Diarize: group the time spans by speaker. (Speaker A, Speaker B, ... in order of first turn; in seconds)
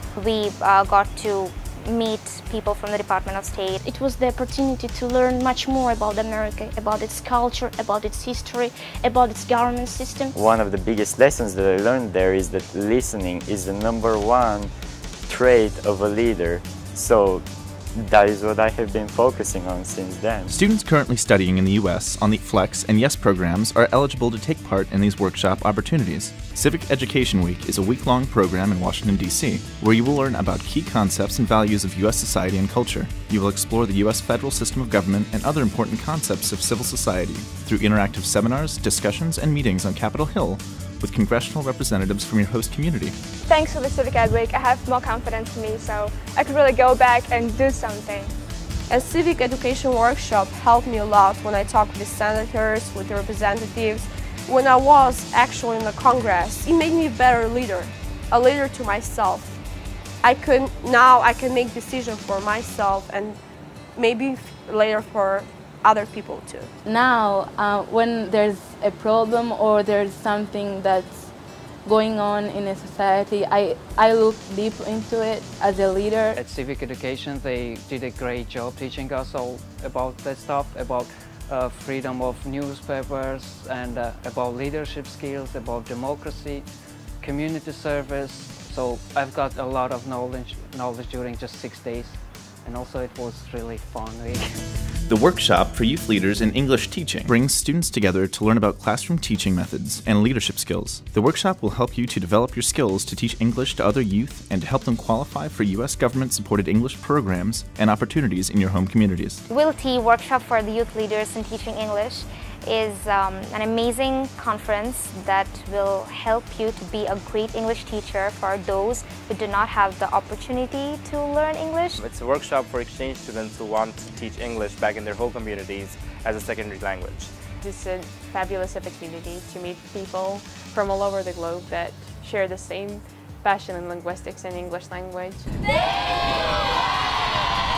Speaker A: 0.1-3.8, 109.5-122.0
Speaker B: 3.8-10.4
Speaker C: 10.3-14.7, 15.2-17.4, 17.9-20.5
Speaker D: 20.5-43.2, 95.1-109.4
Speaker E: 43.5-48.4
Speaker F: 48.9-59.6, 60.2-63.4, 64.0-66.7
Speaker G: 66.8-71.3, 71.8-76.4
Speaker H: 76.3-86.7, 87.2-94.6
Speaker I: 122.0-127.3
Speaker J: 127.6-135.5